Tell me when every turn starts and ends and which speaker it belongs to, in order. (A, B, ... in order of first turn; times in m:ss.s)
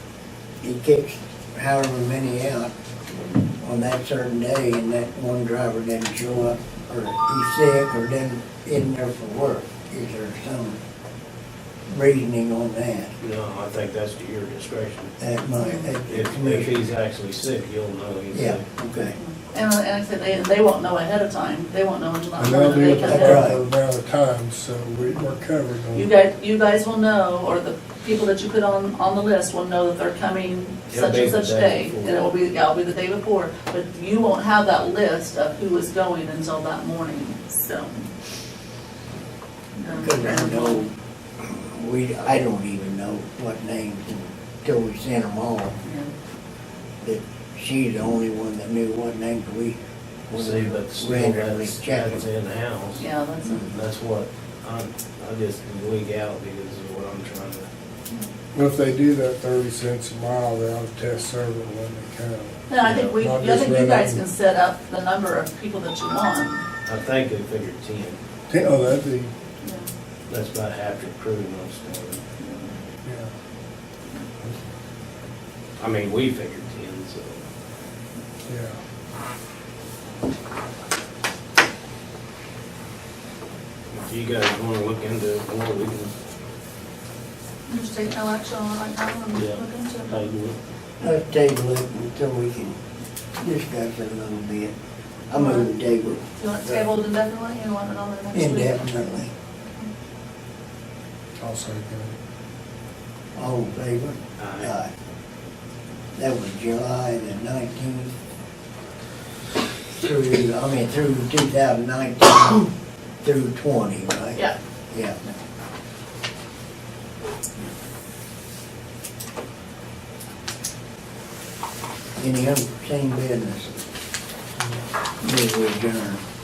0:00.6-0:02.7 A
0:03.6-0:10.8 A
0:11.9-0:13.1 A
0:13.2-0:15.1 B
0:15.2-0:16.8 A
0:15.6-0:15.9 C
0:16.1-0:18.7 B
0:18.3-0:19.2 A
0:19.2-0:23.5 C
0:22.4-0:26.1 D
0:23.0-0:23.6 A
0:25.9-0:38.1 C
0:30.9-0:32.3 B
0:39.8-0:40.8 C
0:40.0-0:45.8 A
0:45.8-0:46.1 C
0:47.0-0:49.8 A
0:50.3-0:52.2 A
0:50.3-0:57.7 B
0:53.0-0:53.8 C
0:58.5-1:04.2 D
1:02.7-1:06.6 C
1:06.9-1:08.2 B
1:08.5-1:09.3 D
1:09.6-1:09.9 C
1:10.3-1:12.2 B
1:12.4-1:12.8 C
1:13.0-1:13.3 D
1:15.8-1:17.4 B
1:18.5-1:18.8 D
1:23.9-1:26.1 B
1:27.7-1:30.3 C
1:29.3-1:30.6 B
1:31.0-1:32.8 A
1:33.4-1:34.7 A
1:35.3-1:36.9 A
1:35.3-1:35.8 C
1:36.4-1:38.9 C
1:38.3-1:39.3 A
1:41.4-1:42.2 D
1:43.4-1:44.9 A
1:44.4-1:44.8 B
1:46.1-1:48.1 A
1:50.0-1:52.7 A
1:53.2-1:55.2 A
2:02.2-2:03.8 A
2:04.6-2:04.9 D
2:05.2-2:06.2 A